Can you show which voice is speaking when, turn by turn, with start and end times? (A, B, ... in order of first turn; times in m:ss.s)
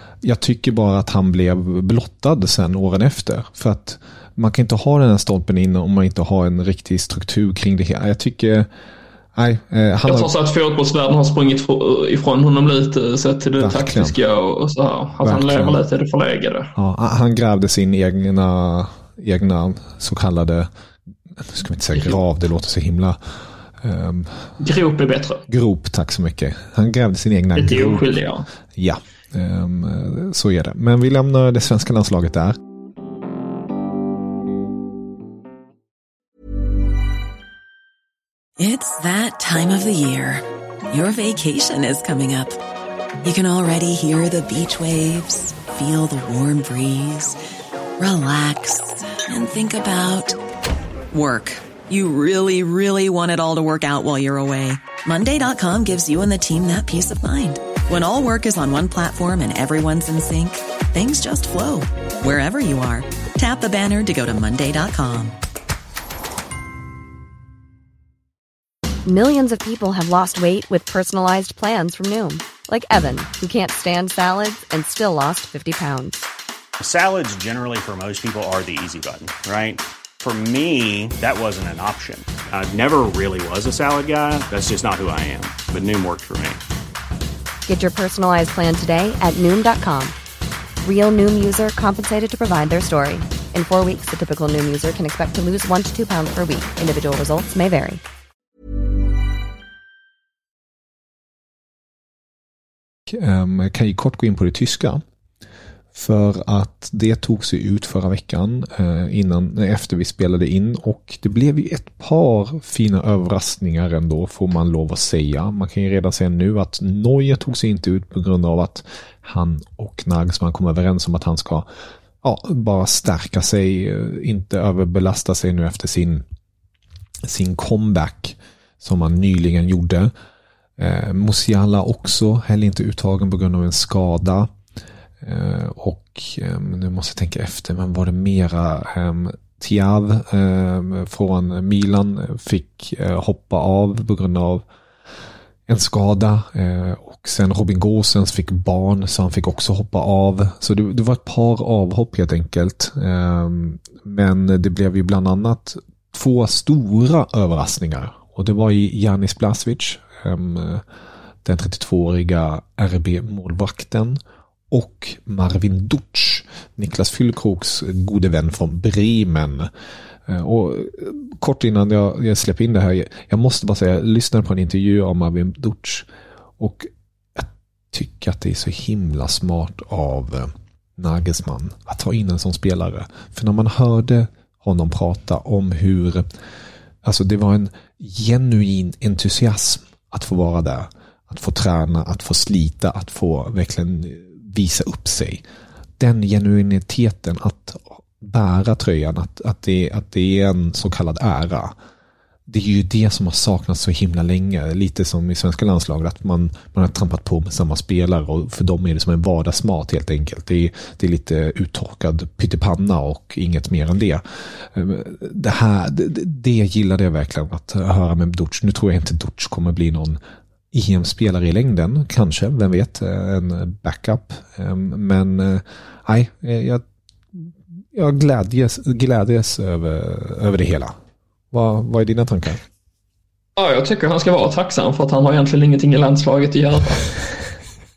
0:00.2-0:08.7 A
0:09.3-0:10.3 A
0:10.0-0:16.7 B
0:13.6-0:14.2 A
0:15.2-0:15.8 A
0:16.8-0:20.7 A
0:21.4-0:24.5 A
0:24.6-0:25.4 B
0:25.5-0:28.1 A
0:27.5-0:28.5 B
0:28.7-0:32.6 A
0:38.6-0:42.6 C
0:43.2-0:47.4 C
0:48.0-0:50.4 C
0:51.1-1:05.4 C
1:09.0-1:16.2 D
1:16.8-1:26.6 E
1:27.7-1:30.1 D
1:30.8-1:38.0 D
1:43.1-1:45.0 A
1:45.9-2:01.7 A
2:02.2-2:06.2 A
2:07.2-2:10.1 A
2:10.8-2:14.5 A
2:15.2-2:24.6 A
2:25.7-2:40.8 A
2:41.4-2:49.7 A
2:50.3-2:56.1 A
2:56.6-3:06.3 A
3:07.0-3:15.4 A
3:16.0-3:21.7 A
3:22.5-3:40.2 A
3:40.7-3:51.0 A
3:51.5-3:52.6 A
3:53.6-3:57.1 B